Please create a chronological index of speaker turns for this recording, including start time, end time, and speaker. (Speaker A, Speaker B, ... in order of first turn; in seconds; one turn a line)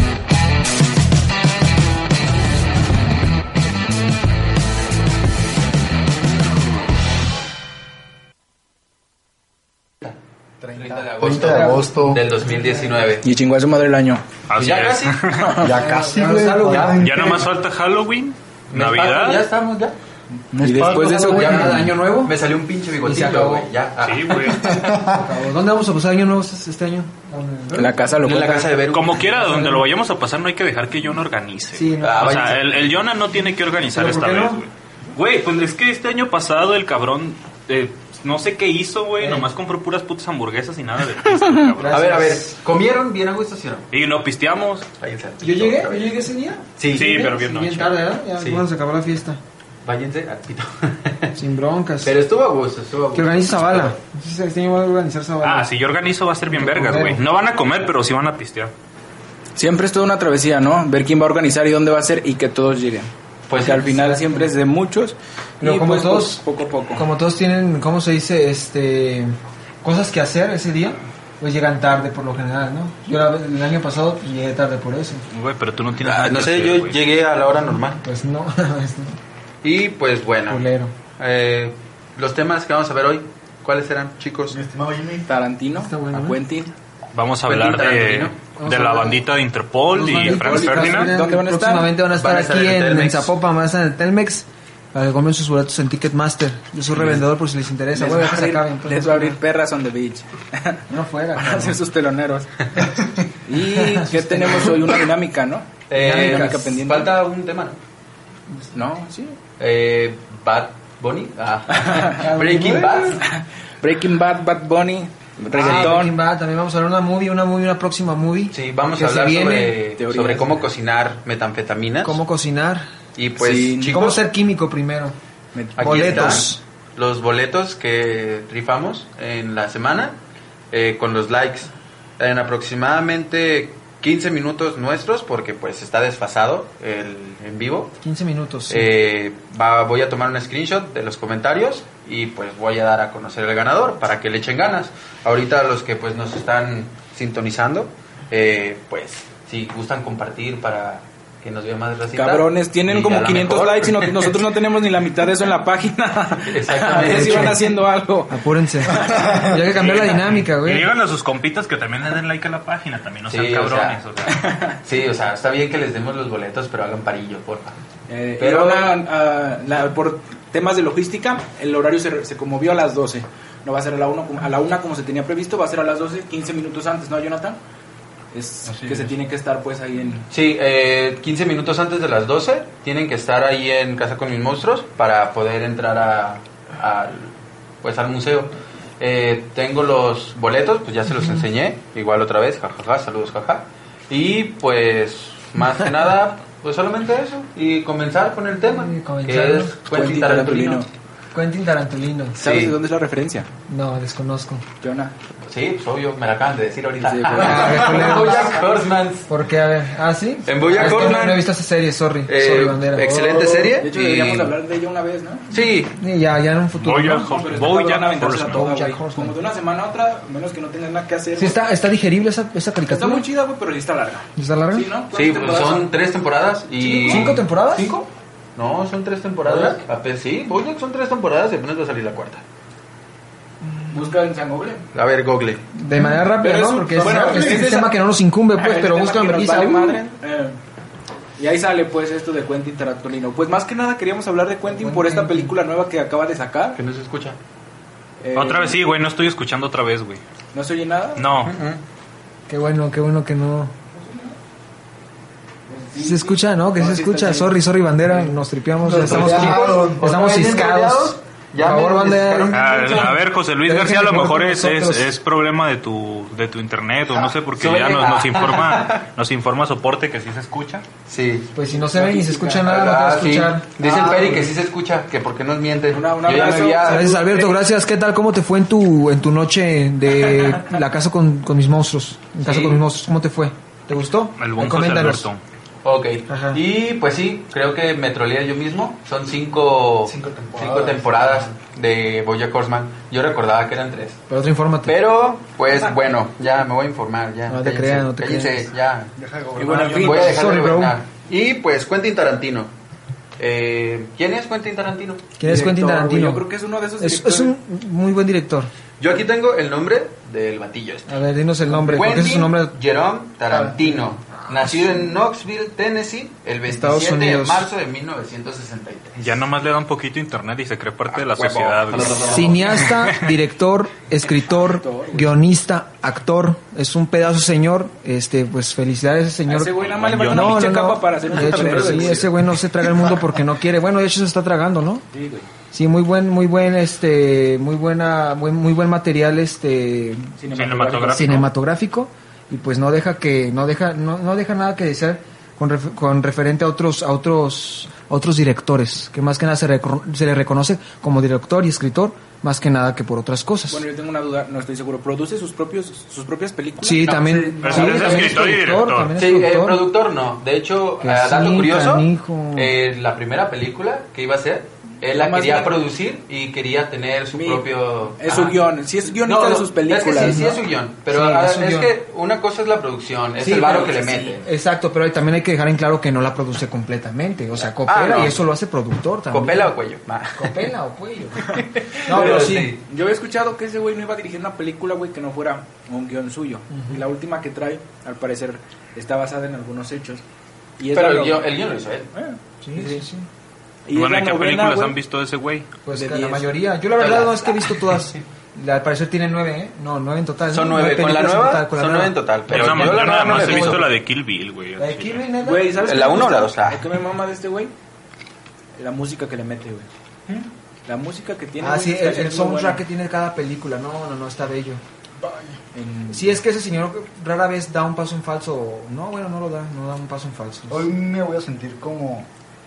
Speaker A: 10.6-12.2
Speaker B: 10.7-13.2
Speaker C: 11.3-13.1
Speaker D: 13.2-14.3
Speaker E: 14.5-15.7
Speaker B: 14.6-15.2
Speaker D: 15.3-15.7
Speaker A: 15.6-17.5
Speaker C: 15.8-17.1
Speaker B: 16.6-17.3
Speaker E: 17.0-19.5
Speaker B: 18.7-19.9
Speaker A: 20.3-21.9
Speaker D: 20.6-21.7
Speaker C: 20.9-22.4
Speaker B: 21.3-24.5
Speaker C: 23.0-23.7
Speaker E: 24.0-24.8
Speaker A: 24.5-25.3
Speaker C: 24.6-27.9
Speaker B: 27.7-29.4
Speaker D: 27.7-28.8
Speaker E: 28.9-42.2
Speaker C: 29.4-29.9
Speaker C: 31.7-32.4
Speaker B: 32.0-33.0
Speaker C: 33.9-34.6
Speaker C: 39.2-39.5
Speaker C: 41.8-42.5
Speaker B: 41.9-43.9
Speaker E: 43.9-44.9
Speaker B: 45.0-46.2
Speaker C: 45.4-49.4
Speaker B: 46.8-47.2
Speaker E: 46.9-48.1
Speaker B: 48.4-48.7
Speaker B: 49.8-51.4
Speaker C: 51.4-52.2
Speaker B: 52.0-54.0
Speaker C: 53.1-55.8
Speaker E: 55.4-58.7
Speaker C: 56.5-57.2
Speaker D: 59.6-67.0
Speaker B: 63.5-63.9
Speaker C: 63.7-64.5
Speaker C: 65.6-75.2
Speaker E: 75.3-77.0
Speaker B: 76.0-78.0
Speaker C: 77.9-79.2
Speaker B: 79.6-84.6
Speaker C: 80.5-80.9
Speaker A: 84.5-85.3
Speaker D: 85.3-86.7
Speaker C: 85.8-86.4
Speaker E: 87.1-91.1
Speaker B: 87.4-88.4
Speaker C: 88.6-89.2
Speaker C: 89.9-99.4
Speaker D: 90.0-91.9
Speaker B: 92.1-93.3
Speaker D: 97.9-100.8
Speaker C: 100.9-101.8
Speaker D: 101.4-102.6
Speaker D: 103.4-107.1
Speaker C: 103.7-104.9
Speaker B: 105.9-107.8
Speaker C: 105.9-106.6
Speaker D: 108.7-109.4
Speaker B: 109.6-113.2
Speaker D: 111.7-112.2
Speaker C: 112.2-113.2
Speaker D: 113.2-116.1
Speaker B: 115.5-116.1
Speaker C: 115.5-119.8
Speaker B: 118.5-122.2
Speaker D: 120.0-120.6
Speaker C: 122.0-122.9
Speaker B: 123.2-124.2
Speaker D: 123.4-124.1
Speaker C: 123.9-125.2
Speaker D: 125.5-126.5
Speaker B: 125.8-130.2
Speaker C: 125.8-126.6
Speaker B: 130.7-137.9
Speaker C: 138.0-138.9
Speaker B: 138.7-154.3
Speaker D: 152.1-159.5
Speaker B: 156.4-157.7
Speaker C: 156.9-157.7
Speaker C: 158.3-160.9
Speaker E: 159.6-164.5
Speaker B: 163.3-164.0
Speaker D: 164.3-164.8
Speaker B: 164.8-167.8
Speaker D: 168.1-177.6
Speaker B: 168.4-168.9
Speaker D: 178.3-180.3
Speaker B: 180.3-200.8
Speaker C: 198.5-199.7
Speaker D: 199.9-200.9
Speaker C: 201.3-202.4
Speaker D: 202.4-203.5
Speaker B: 202.4-202.8
Speaker C: 203.7-204.6
Speaker D: 204.8-205.1
Speaker B: 205.4-209.3
Speaker D: 207.0-208.0
Speaker C: 207.3-208.5
Speaker C: 209.3-213.3
Speaker B: 210.5-211.5
Speaker D: 210.7-211.1
Speaker B: 212.3-214.6
Speaker D: 213.0-215.5
Speaker B: 215.5-215.9
Speaker C: 215.9-217.4
Speaker E: 216.8-218.7
Speaker D: 217.3-221.6
Speaker C: 218.5-219.4
Speaker C: 221.4-223.3
Speaker D: 222.9-225.9
Speaker C: 224.4-224.9
Speaker B: 225.1-232.4
Speaker D: 226.8-227.4
Speaker C: 226.8-227.9
Speaker D: 229.4-229.8
Speaker C: 233.7-233.9
Speaker D: 233.9-234.8
Speaker B: 234.9-235.7
Speaker C: 235.8-240.1
Speaker D: 235.9-238.0
Speaker D: 238.6-240.6
Speaker D: 241.4-246.8
Speaker C: 244.7-245.5
Speaker B: 246.8-247.4
Speaker D: 248.2-248.8
Speaker E: 248.3-250.2
Speaker D: 250.5-251.2
Speaker E: 251.2-251.6
Speaker B: 251.4-251.8
Speaker C: 252.5-253.7
Speaker D: 253.9-254.3
Speaker D: 255.7-257.6
Speaker C: 256.0-262.6
Speaker A: 258.8-260.1
Speaker B: 258.9-263.2
Speaker E: 262.5-270.9
Speaker C: 263.6-265.1
Speaker B: 267.1-269.1
Speaker B: 271.1-271.5
Speaker C: 271.5-273.8
Speaker D: 271.7-272.6
Speaker B: 272.6-277.1
Speaker D: 273.9-274.3
Speaker D: 275.9-277.6
Speaker C: 276.9-285.3
Speaker D: 280.2-280.7
Speaker B: 282.4-282.9
Speaker E: 284.4-285.4
Speaker B: 285.9-294.2
Speaker C: 286.3-286.6
Speaker A: 290.0-291.5
Speaker C: 294.3-294.9
Speaker B: 294.9-299.1
Speaker C: 297.5-298.7
Speaker A: 299.2-300.3
Speaker D: 299.6-300.4
Speaker B: 299.7-302.7
Speaker C: 300.1-301.0
Speaker B: 303.4-305.2
Speaker C: 305.4-306.4
Speaker D: 305.4-307.5
Speaker C: 307.0-308.7
Speaker B: 309.0-311.1
Speaker C: 311.1-312.7
Speaker B: 311.7-319.5
Speaker C: 314.4-315.1
Speaker C: 316.7-317.7
Speaker E: 319.2-323.2
Speaker B: 321.1-322.9
Speaker C: 322.2-335.0
Speaker D: 324.2-325.4
Speaker D: 329.5-332.3
Speaker E: 329.7-330.8
Speaker B: 331.3-332.3
Speaker D: 335.1-335.5
Speaker C: 335.7-340.3
Speaker D: 340.4-341.5
Speaker E: 340.5-341.5
Speaker C: 341.1-353.8
Speaker D: 353.7-357.1
Speaker C: 356.8-359.9
Speaker B: 357.0-358.4
Speaker E: 357.6-359.2
Speaker B: 359.2-368.6
Speaker C: 361.0-362.8
Speaker D: 365.1-365.8
Speaker D: 367.3-370.4
Speaker B: 369.2-374.4
Speaker C: 370.2-371.9
Speaker C: 373.4-379.7
Speaker D: 373.6-374.4
Speaker B: 377.9-378.4
Speaker B: 379.3-380.7
Speaker C: 380.4-382.7
Speaker D: 381.5-390.2
Speaker B: 382.1-382.8
Speaker C: 386.7-387.0
Speaker D: 390.8-391.6
Speaker B: 390.9-392.1
Speaker D: 392.1-393.1
Speaker C: 392.6-393.3
Speaker D: 393.9-395.0
Speaker E: 393.9-395.7
Speaker C: 395.9-403.6
Speaker D: 396.0-396.5
Speaker B: 397.0-398.2
Speaker B: 400.5-403.9
Speaker E: 402.5-405.3
Speaker D: 403.3-403.6
Speaker C: 404.8-406.0
Speaker D: 405.4-407.7
Speaker B: 405.8-406.8
Speaker D: 408.8-409.9
Speaker D: 410.9-412.8
Speaker C: 411.6-414.8
Speaker A: 415.2-415.6
Speaker D: 415.7-416.4
Speaker C: 416.1-420.9
Speaker A: 420.7-422.3